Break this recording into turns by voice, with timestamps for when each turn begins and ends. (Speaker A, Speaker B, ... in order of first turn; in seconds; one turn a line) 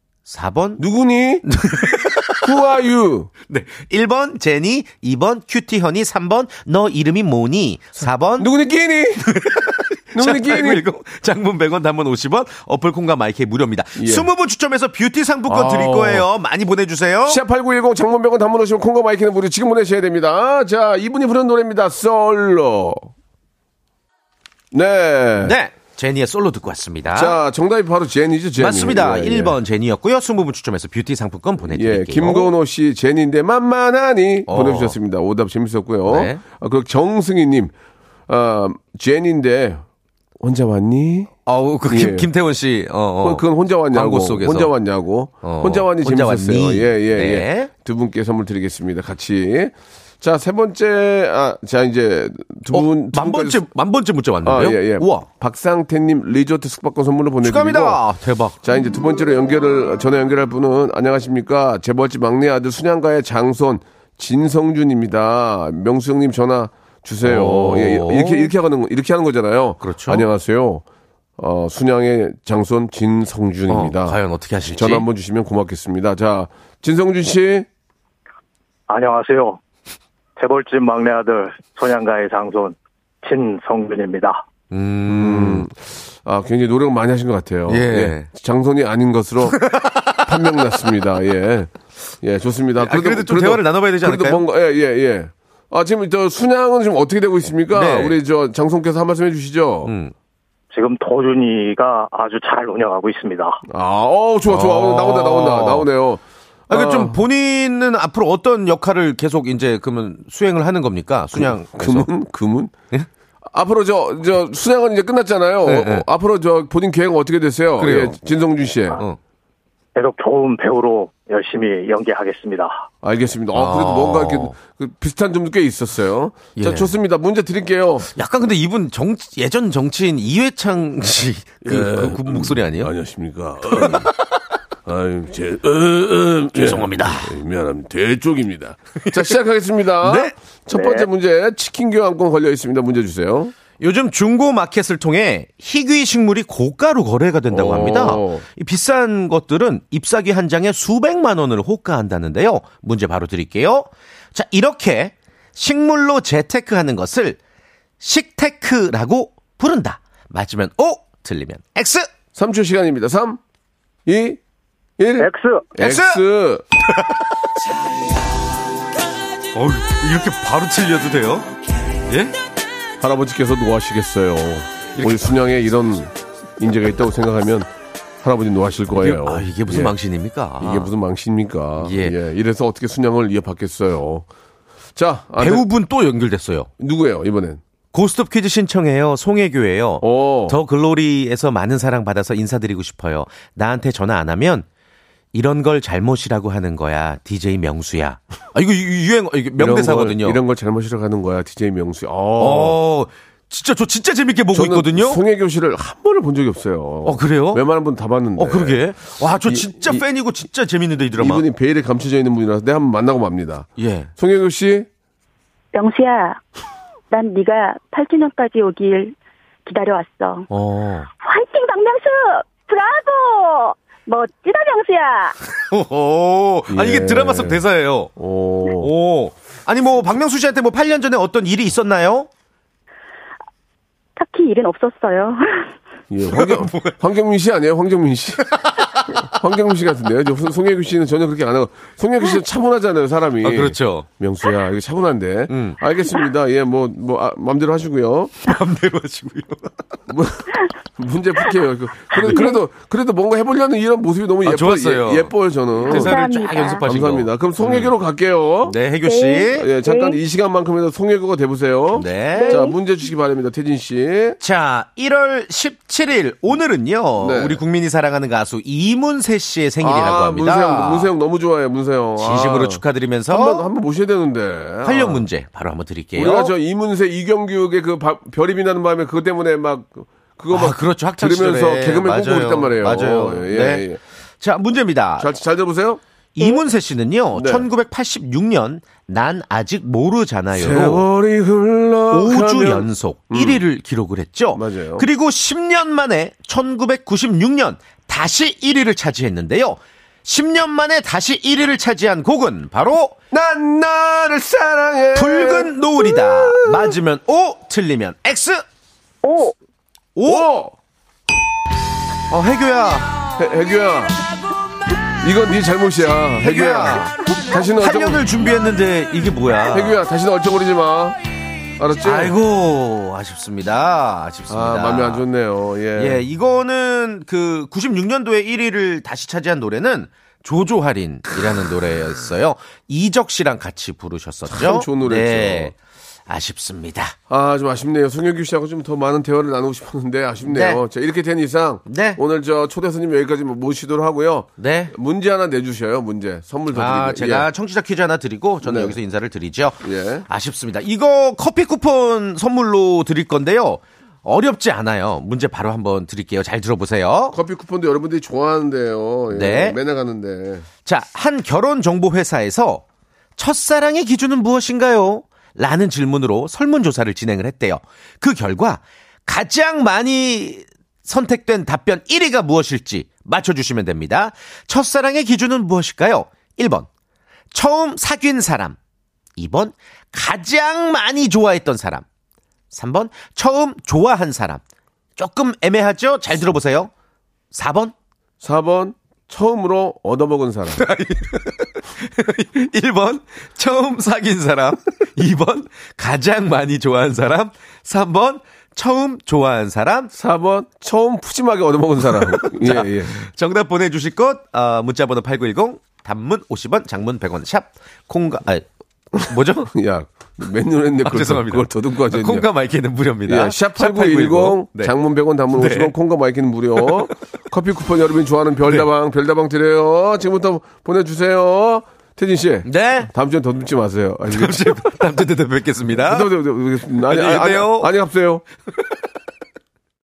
Speaker A: 0.3-0.8
Speaker B: 0.8-1.4
Speaker A: 1.4-2.5
Speaker B: 2.4-3.3
Speaker A: 3.5-8.5
Speaker B: 8.3-9.4
Speaker A: 9.3-17.4
Speaker B: 10.1-10.8
Speaker B: 14.0-14.3
Speaker B: 15.5-16.3
Speaker B: 17.2-23.1
Speaker B: 24.7-25.6
Speaker A: 25.4-27.4
Speaker B: 27.1-29.6
Speaker A: 28.6-32.5
Speaker B: 31.7-37.7
Speaker A: 34.5-35.0
Speaker A: 36.0-36.4
Speaker B: 38.3-39.8
Speaker B: 40.4-41.3
Speaker A: 41.5-44.7
Speaker B: 41.9-42.3
Speaker B: 43.2-53.6
Speaker A: 45.4-47.7
Speaker A: 52.7-55.2
Speaker B: 54.4-58.0
Speaker A: 57.4-58.6
Speaker B: 58.6-70.8
Speaker A: 67.2-68.5
Speaker A: 69.8-70.2
Speaker B: 71.4-77.7
Speaker A: 73.7-75.1
Speaker C: 78.9-79.6
Speaker C: 80.4-84.4
Speaker A: 84.7-85.7
Speaker B: 85.0-99.9
Speaker A: 87.7-88.3
Speaker A: 89.6-90.2
Speaker A: 92.8-94.4
Speaker A: 97.7-98.2
Speaker A: 99.8-100.1
Speaker C: 100.7-103.6
Speaker B: 103.7-107.2
Speaker A: 104.5-105.9
Speaker A: 106.7-112.1
Speaker B: 111.3-112.7
Speaker B: 113.5-119.0
Speaker A: 115.7-116.0
Speaker A: 117.8-118.2
Speaker A: 118.9-119.2
Speaker C: 119.9-122.8
Speaker B: 123.0-128.1
Speaker A: 123.5-124.5
Speaker A: 126.6-126.9
Speaker A: 128.1-132.9
Speaker B: 131.6-134.1
Speaker A: 133.7-134.1
Speaker B: 134.8-143.5
Speaker A: 136.5-137.3
Speaker A: 139.0-139.3
Speaker A: 140.0-140.3
Speaker A: 143.8-157.4
Speaker B: 147.5-148.4
Speaker A: 158.0-162.1
Speaker B: 162.3-163.4
Speaker B: 164.1-164.4
Speaker B: 165.0-166.6
Speaker C: 165.2-165.7
Speaker A: 165.8-166.2
Speaker A: 166.9-167.2
Speaker A: 169.5-171.5
Speaker A: 172.1-172.3
Speaker B: 173.0-177.7
Speaker A: 175.0-175.3
Speaker B: 178.2-179.9
Speaker A: 178.9-180.9
Speaker B: 180.6-184.2
Speaker A: 181.8-182.2
Speaker B: 184.9-185.7
Speaker A: 185.4-186.7
Speaker B: 186.8-187.6
Speaker A: 187.9-194.7
Speaker B: 190.0-190.6
Speaker A: 195.3-200.4
Speaker B: 199.6-202.8
Speaker A: 202.4-205.2
Speaker B: 204.5-210.0
Speaker A: 207.0-207.6
Speaker A: 208.4-211.4
Speaker B: 211.2-214.9
Speaker A: 213.8-214.1
Speaker D: 215.7-216.4
Speaker D: 217.1-219.1
Speaker D: 219.7-220.5
Speaker A: 220.5-221.1
Speaker D: 221.2-225.4
Speaker A: 225.7-228.1
Speaker B: 226.7-227.6
Speaker B: 228.2-228.9
Speaker A: 228.8-232.3
Speaker D: 234.2-235.7
Speaker B: 236.1-248.4
Speaker A: 236.3-237.0
Speaker A: 238.5-239.1
Speaker A: 243.4-244.1
Speaker A: 245.5-245.8
Speaker A: 248.4-249.7
Speaker B: 250.1-256.2
Speaker A: 252.1-252.4
Speaker D: 252.2-252.6
Speaker A: 254.4-257.9
Speaker D: 255.8-256.8
Speaker B: 256.8-258.8
Speaker A: 258.6-259.7
Speaker D: 259.0-260.2
Speaker B: 259.5-264.4
Speaker A: 261.9-262.6
Speaker D: 262.3-262.8
Speaker A: 264.4-271.1
Speaker B: 267.2-267.6
Speaker B: 269.8-275.2
Speaker A: 272.2-273.7
Speaker A: 274.8-276.5
Speaker B: 276.1-284.0
Speaker A: 280.5-283.9
Speaker A: 284.4-285.3
Speaker B: 285.2-286.6
Speaker A: 286.4-291.0
Speaker B: 287.3-287.6
Speaker B: 290.5-293.6
Speaker A: 292.1-303.2
Speaker B: 294.5-295.1
Speaker B: 303.3-306.9
Speaker A: 305.1-308.6
Speaker D: 309.2-309.5
Speaker A: 310.1-310.5
Speaker B: 310.2-310.7
Speaker A: 312.3-313.1
Speaker B: 313.4-314.2
Speaker B: 315.2-318.3
Speaker A: 316.4-317.1
Speaker A: 317.8-320.0
Speaker B: 319.7-321.2
Speaker B: 321.8-322.4
Speaker A: 322.0-325.2
Speaker B: 324.5-326.2
Speaker A: 325.9-335.7
Speaker B: 334.5-335.7
Speaker A: 336.3-337.1
Speaker B: 337.3-347.5
Speaker A: 340.4-340.8
Speaker A: 341.9-342.2
Speaker A: 344.6-344.9
Speaker A: 346.7-357.4
Speaker B: 348.6-349.0
Speaker B: 349.8-350.3
Speaker B: 357.3-360.6
Speaker A: 359.3-359.8
Speaker A: 360.8-362.8
Speaker A: 363.4-376.9
Speaker A: 377.5-378.8
Speaker A: 379.4-382.0
Speaker A: 382.7-384.6
Speaker A: 385.1-386.9
Speaker A: 387.5-387.9
Speaker B: 388.4-390.8
Speaker A: 390.8-400.1
Speaker B: 400.1-403.2
Speaker A: 402.2-409.7
Speaker B: 409.7-412.5
Speaker A: 411.0-414.9
Speaker B: 413.2-424.9
Speaker A: 415.6-415.9
Speaker A: 416.8-417.1
Speaker A: 422.6-423.1
Speaker A: 424.3-426.3
Speaker B: 425.9-428.4
Speaker A: 427.1-427.9